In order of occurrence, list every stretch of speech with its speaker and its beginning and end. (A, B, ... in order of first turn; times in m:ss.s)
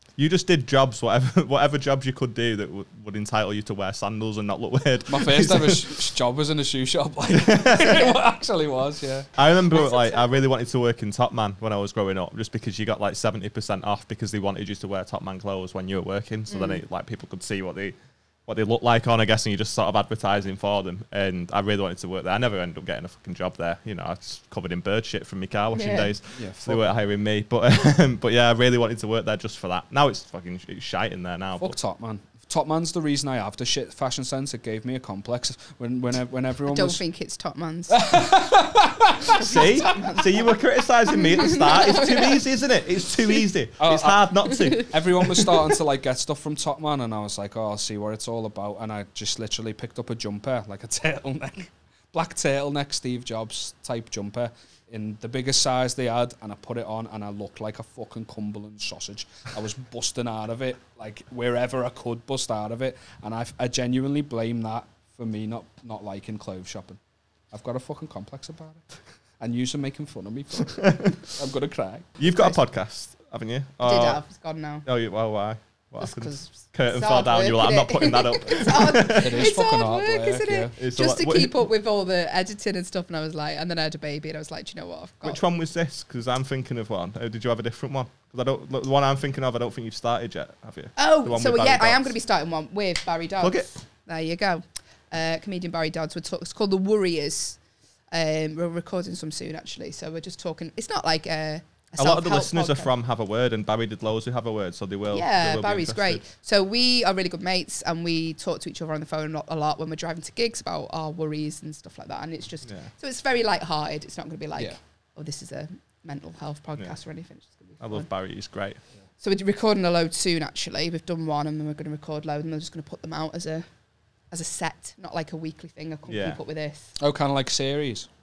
0:00.2-0:06.0 A
0:05.1-0:09.3 B
0:07.3-0:08.2 A
0:09.4-0:31.8 A
0:09.7-0:10.3 C
0:16.5-0:16.8 C
0:25.7-0:26.1 C
0:26.4-0:26.8 B
0:31.6-0:37.0 B
0:36.7-0:38.2 C
0:37.9-0:39.7 B
0:39.3-0:40.6 C
0:39.4-0:44.9 A
0:41.1-0:42.4 C
0:43.8-1:07.0 B
0:44.5-0:45.4 C
1:07.5-1:08.8 B
1:09.4-1:12.1 B
1:10.8-1:11.2 A
1:12.2-1:14.2 A
1:12.2-1:12.6 C
1:13.8-1:14.9 C
1:14.9-1:19.5 A
1:16.0-1:25.4 C
1:19.2-1:20.8 B
1:20.8-1:21.7 A
1:25.2-1:32.1 A
1:31.0-1:37.6 C
1:33.4-1:33.7 A
1:38.1-1:42.9 C
1:42.0-1:46.2 A
1:45.1-1:58.1 C
1:57.8-1:58.8 A
1:59.2-2:03.6 C
2:04.3-2:07.0 C
2:06.1-2:06.4 A
2:07.0-2:08.1 B